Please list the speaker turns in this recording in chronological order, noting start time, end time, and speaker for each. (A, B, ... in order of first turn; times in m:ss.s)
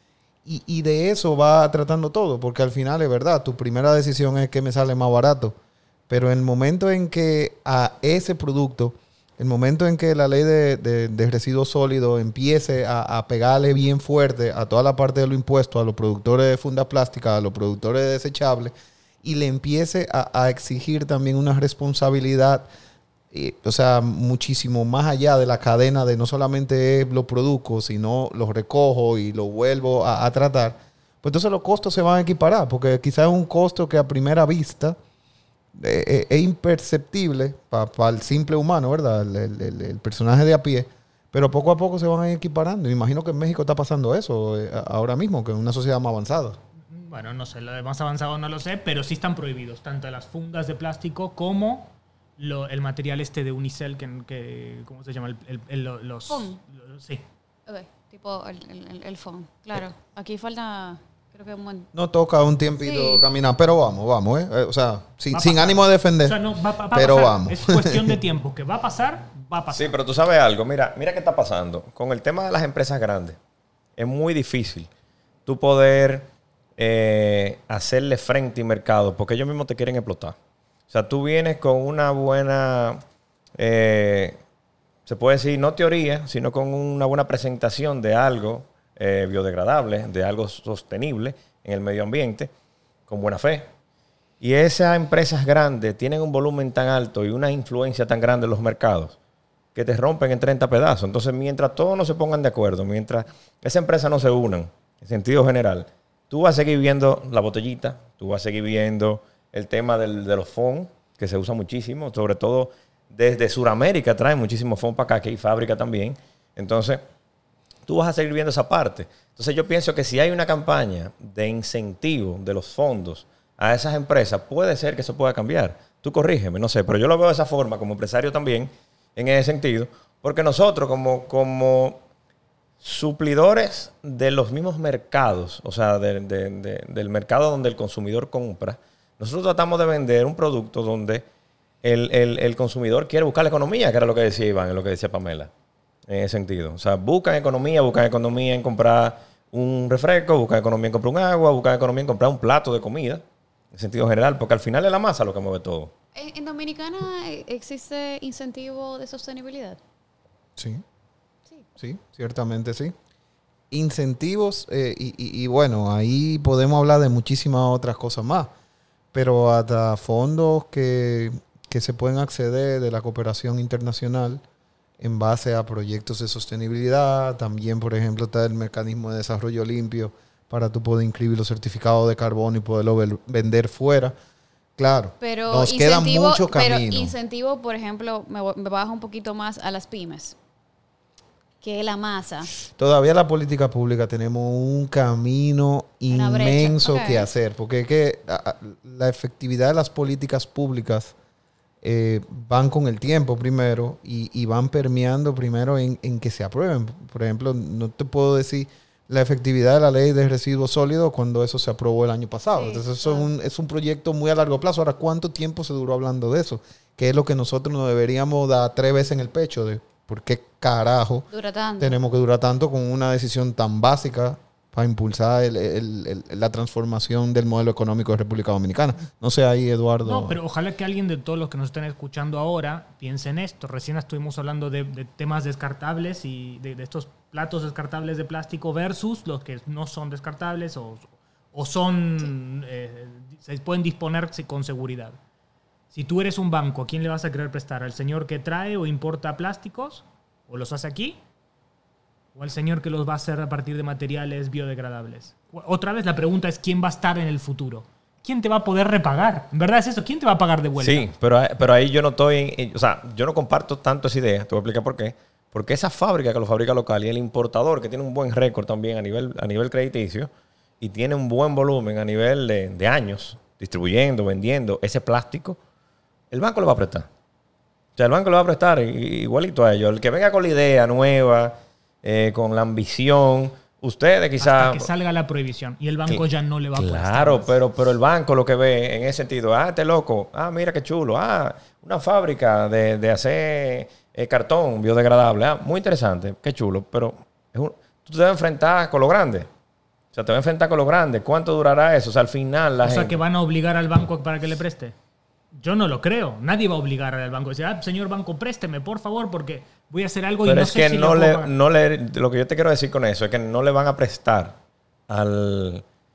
0:00.4-0:05.6 A
0:06.1-0:22.7 A
0:23.3-0:35.0 A
0:35.7-0:46.6 A
0:46.9-0:57.2 B
0:56.3-0:56.6 C
0:57.7-1:01.9 C
1:01.9-1:06.4 A
1:02.7-1:03.2 C
1:05.3-1:09.9 B
1:06.9-1:08.2 A
1:09.7-1:13.4 D
1:14.0-1:14.9 D
1:15.5-1:20.4 D
1:20.9-1:23.0 D
1:23.6-1:24.4 D
1:25.1-1:32.5 D
1:33.1-1:33.7 D
1:34.4-1:39.2 D
1:39.8-1:57.0 D
1:57.9-2:12.0 D
2:12.8-2:21.2 D
2:21.8-2:25.5 D
2:26.1-2:35.9 D
2:36.2-2:39.8 C
2:40.6-2:40.8 A
2:41.8-2:42.9 A
2:43.7-2:48.5 A
2:49.1-2:54.4 A
2:55.0-3:04.2 A
3:04.8-3:07.2 A
3:05.2-3:10.4 C
3:11.6-3:12.5 C
3:12.7-3:21.1 A
3:16.1-3:17.3 C
3:21.8-3:41.3 A
3:32.5-3:33.3 C
3:41.3-3:42.0 C
3:41.8-3:50.4 A
3:50.0-4:05.2 B
4:05.9-4:11.2 B
4:12.4-4:21.1 B
4:20.8-4:30.3 D
4:30.8-4:35.6 D
4:36.3-4:37.1 D
4:38.0-4:44.9 D
4:44.4-4:47.5 B
4:46.8-4:59.5 D
5:00.1-5:03.2 D
5:02.8-5:05.0 B
5:05.6-5:11.5 B
5:10.5-5:14.6 D
5:15.1-5:15.8 D